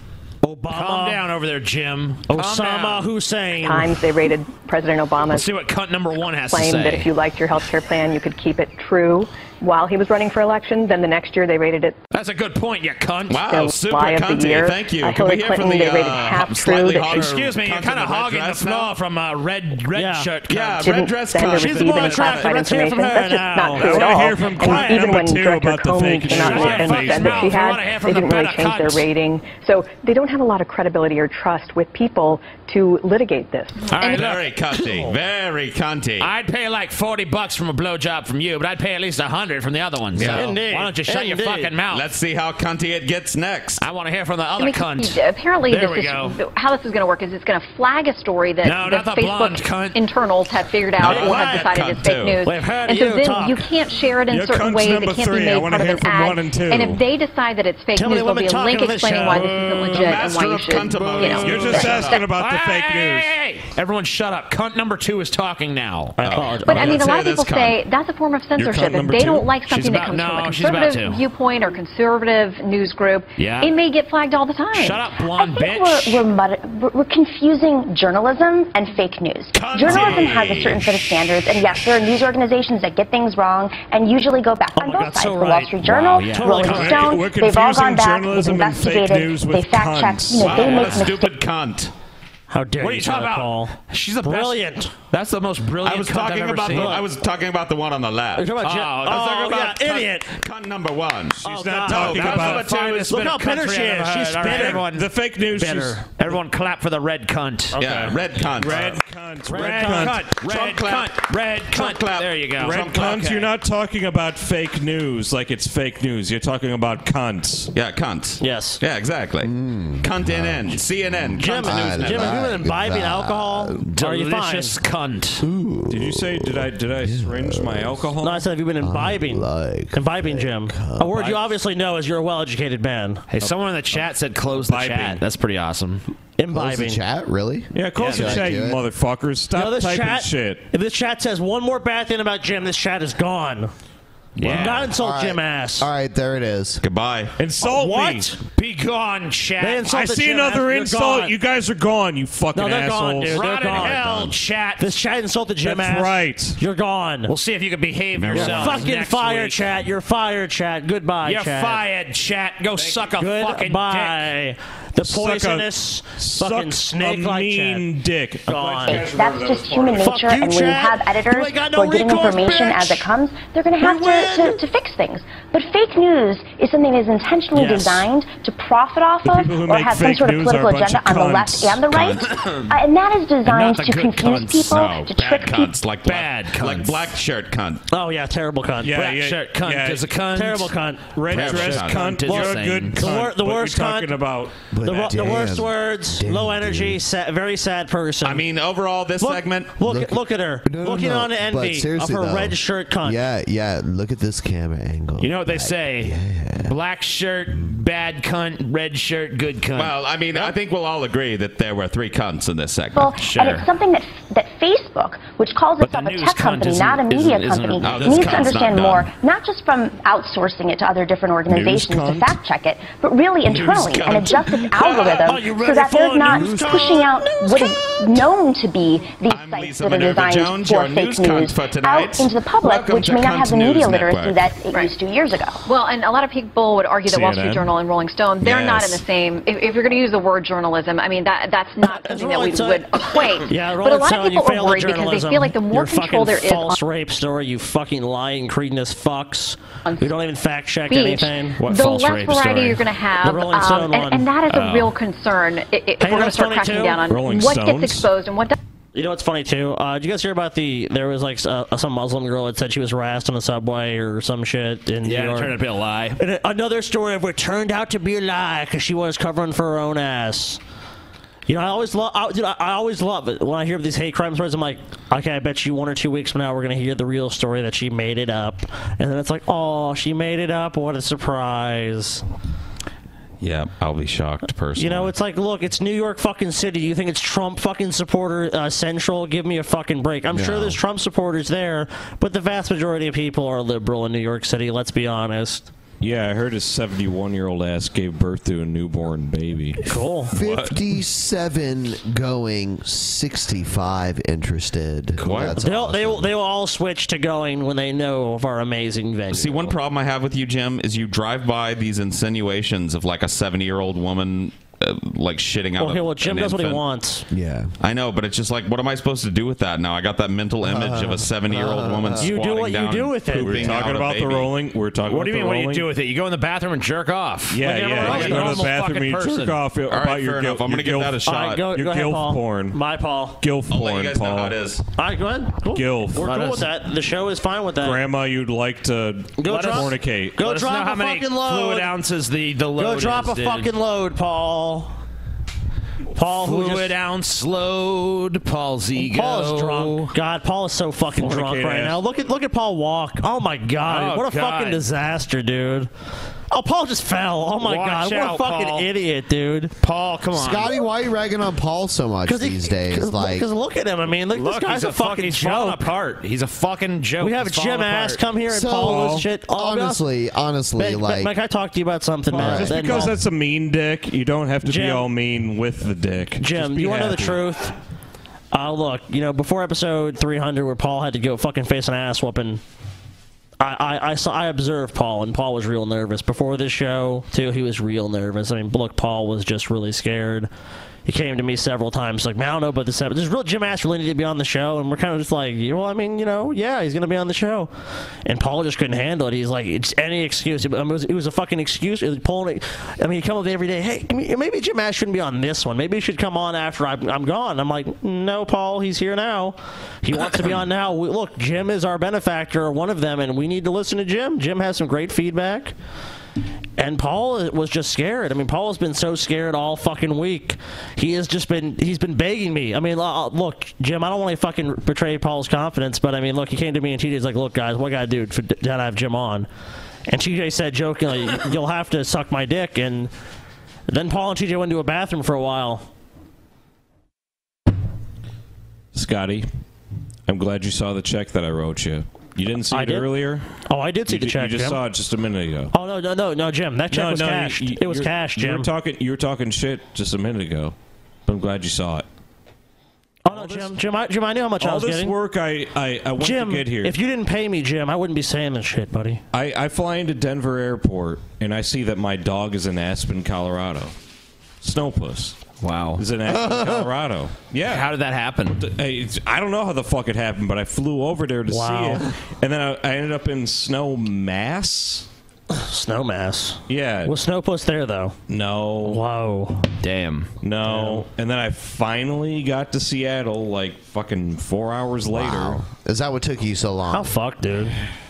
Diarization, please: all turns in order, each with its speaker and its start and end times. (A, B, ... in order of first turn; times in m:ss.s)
0:00.4-0:01.2 A
0:00.7-0:03.1 B
0:02.3-0:04.0 A
0:03.6-0:05.5 C
0:05.3-0:07.1 B
0:06.5-0:12.0 C
0:12.1-0:13.6 B
0:13.3-0:18.9 D
0:13.5-0:17.2 C
0:17.0-0:20.9 B
0:20.0-0:20.3 A
0:20.5-0:22.2 D
0:20.8-0:33.9 C
0:21.5-0:22.5 B
0:21.6-0:25.2 A
0:23.6-0:27.6 E
0:26.3-0:27.1 A
0:26.5-0:29.1 B
0:33.9-0:34.2 F
0:33.9-0:35.1 B
0:34.0-0:36.3 D
0:36.2-0:42.0 B
0:40.1-0:40.5 D
0:40.2-0:41.7 A
0:41.9-0:43.8 D
0:43.8-0:46.4 B
0:44.6-1:02.2 F
0:48.6-0:50.0 B
0:51.0-0:52.4 D
0:51.0-0:51.7 A
0:52.4-0:53.6 A
0:54.3-0:57.0 E
0:58.0-1:00.1 A
0:59.8-1:02.2 D
1:01.4-1:03.4 E
1:02.2-1:06.2 B
1:06.2-1:07.0 A
1:06.2-1:07.8 D
1:06.6-1:15.0 F
1:08.6-1:09.6 E
1:09.7-1:11.2 B
1:13.4-1:13.7 B
1:14.7-1:16.2 B
1:15.3-1:31.3 G
1:19.5-1:21.0 B
1:24.7-1:27.1 A
1:25.8-1:27.2 B
1:26.6-1:30.8 E
1:30.4-1:31.9 D
1:30.7-1:31.0 B
1:32.5-1:34.9 A
1:32.8-1:37.0 B
1:35.8-1:38.5 D
1:36.7-1:37.0 A
1:38.4-1:40.3 A
1:38.6-1:39.8 B
1:39.7-1:43.2 D
1:41.4-1:42.7 E
1:41.4-1:44.9 A
1:42.0-1:45.1 B
1:44.4-1:46.0 E
1:45.5-1:46.3 A
1:46.1-1:49.0 B
1:47.7-1:48.1 A
1:47.8-1:49.0 D
1:48.6-1:50.3 E
1:49.4-1:50.2 A
1:49.5-1:53.5 B
1:50.4-1:53.2 D
1:52.6-1:57.7 E
1:57.7-2:02.4 D
1:58.4-1:58.8 A
1:59.4-2:03.8 H
2:01.4-2:04.8 A
2:03.8-2:05.4 B
2:05.4-2:08.1 H
2:05.9-2:08.5 E
2:08.2-2:13.3 A
2:08.8-2:11.3 H
2:13.3-2:16.0 B
2:13.4-2:15.2 E
2:16.4-2:17.0 A
2:16.5-2:18.8 H
2:17.7-2:20.6 E
2:18.0-2:18.4 B
2:19.6-2:23.7 A
2:24.4-2:24.8 D
2:24.4-2:24.9 B
2:24.4-2:25.9 A
2:24.9-2:26.8 H
2:26.8-2:27.3 D
2:27.4-2:28.3 E
2:27.6-2:28.4 A
2:28.6-2:29.8 B
2:29.6-2:31.3 A
2:29.8-2:34.2 E
2:32.5-2:37.3 A
2:33.3-2:34.9 B
2:35.6-2:36.6 E
2:37.3-2:39.7 B
2:38.1-2:38.8 D
2:38.3-2:41.8 A
2:41.2-2:44.2 B
2:42.8-2:43.0 E
2:43.2-2:47.9 A
2:45.0-2:50.2 E
2:48.5-2:49.1 A
2:48.9-3:05.7 G
2:49.9-2:53.0 A
2:53.8-2:54.6 A
2:57.5-2:58.1 A
2:59.2-3:01.9 E
3:01.9-3:02.2 D
3:02.2-3:02.7 B
3:03.4-3:07.1 B
3:04.6-3:07.8 D
3:07.9-3:09.2 A
3:08.8-3:10.1 E
3:09.0-3:10.7 B
3:10.3-3:14.2 A
3:11.2-3:14.5 E
3:11.3-3:13.0 B
3:11.3-3:12.1 D
3:14.7-3:17.0 H
3:14.8-3:18.4 A
3:18.2-3:19.7 D
3:19.2-3:23.2 A
3:19.8-3:26.8 H
3:25.2-3:26.1 B
3:26.6-3:30.5 B
3:29.7-3:33.2 D
3:33.0-3:55.6 G
3:33.1-3:33.7 B
3:35.8-3:38.6 B
3:37.8-3:39.1 D
3:41.5-3:42.4 E
3:43.5-3:44.9 D
3:44.9-3:47.6 A
3:46.3-3:47.3 E
3:49.3-3:54.5 D
3:55.6-4:06.7 F
3:57.1-3:57.7 E
3:58.4-3:59.0 E
4:01.8-4:11.7 A
4:10.9-4:18.5 F
4:11.6-4:12.8 B
4:13.2-4:14.3 A
4:14.5-4:14.9 D
4:16.0-4:17.0 A
4:17.0-4:18.1 E
4:19.0-4:25.5 A
4:25.0-4:26.2 B
4:26.2-4:30.6 A
4:31.5-4:42.2 A
4:43.4-4:45.1 D
4:44.8-4:55.7 A
4:50.3-4:50.8 H
4:56.0-4:59.8 E
4:59.9-5:00.3 A
5:00.3-5:06.3 H
5:00.4-5:00.7 D
5:05.2-5:05.6 D
5:05.6-5:09.7 A
5:09.3-5:16.8 D
5:15.8-5:17.2 A
5:17.3-5:17.7 H
5:17.8-5:24.5 D
5:20.6-5:22.3 H
5:22.2-5:23.8 A
5:23.4-5:25.9 E
5:25.0-5:29.6 B
5:27.5-5:32.8 E
5:27.6-5:28.7 A
5:29.9-5:31.6 D
5:31.2-5:33.4 A
5:33.4-5:34.6 E
5:33.7-5:34.8 D
5:35.0-5:38.0 A
5:35.7-5:36.6 E
5:37.8-5:40.4 E
5:39.4-5:41.9 A
5:39.4-5:43.7 B
5:42.8-5:44.9 A
5:46.2-5:46.9 A
5:46.2-5:50.0 B
5:49.0-5:55.9 A
5:51.1-5:52.0 E
5:53.8-5:54.8 B
5:56.5-5:59.7 A
5:57.6-5:58.9 B
5:59.8-6:00.8 B
6:00.3-6:03.5 H
6:02.3-6:05.8 A
6:04.3-6:08.2 B
6:07.2-6:10.0 A
6:08.5-6:11.3 H
6:08.9-6:09.2 E
6:10.8-6:13.2 A
6:12.3-6:12.8 H
6:12.3-6:17.4 E
6:14.6-6:15.1 A
6:16.4-6:17.7 A
6:18.5-6:22.6 A
6:23.6-6:30.5 A
6:31.0-6:37.7 A
6:38.2-6:55.7 A
6:56.8-7:09.5 A
7:10.1-7:13.1 A
7:13.9-7:15.9 A
7:18.9-7:19.5 E
7:20.3-7:23.4 E
7:22.7-7:23.1 A
7:23.7-7:24.8 A
7:24.1-7:25.7 E
7:25.7-7:28.7 A
7:26.9-7:30.7 E
7:31.3-7:32.0 E
7:33.3-7:35.2 A
7:33.3-7:33.7 E
7:34.6-7:37.0 E
7:36.2-7:39.2 A
7:39.3-7:43.9 E
7:44.6-7:45.4 E
7:45.6-7:46.0 B
7:46.0-7:47.9 E
7:46.3-7:46.9 H
7:47.6-7:48.6 B
7:48.5-7:55.1 E
7:51.5-7:52.0 A
7:55.5-7:58.2 A
7:56.7-7:57.1 E
7:58.3-7:59.0 E
7:58.8-7:59.6 A
7:59.8-8:00.3 B
8:00.4-8:05.6 E
8:00.7-8:01.0 A
8:05.1-8:07.1 H
8:06.9-8:07.7 A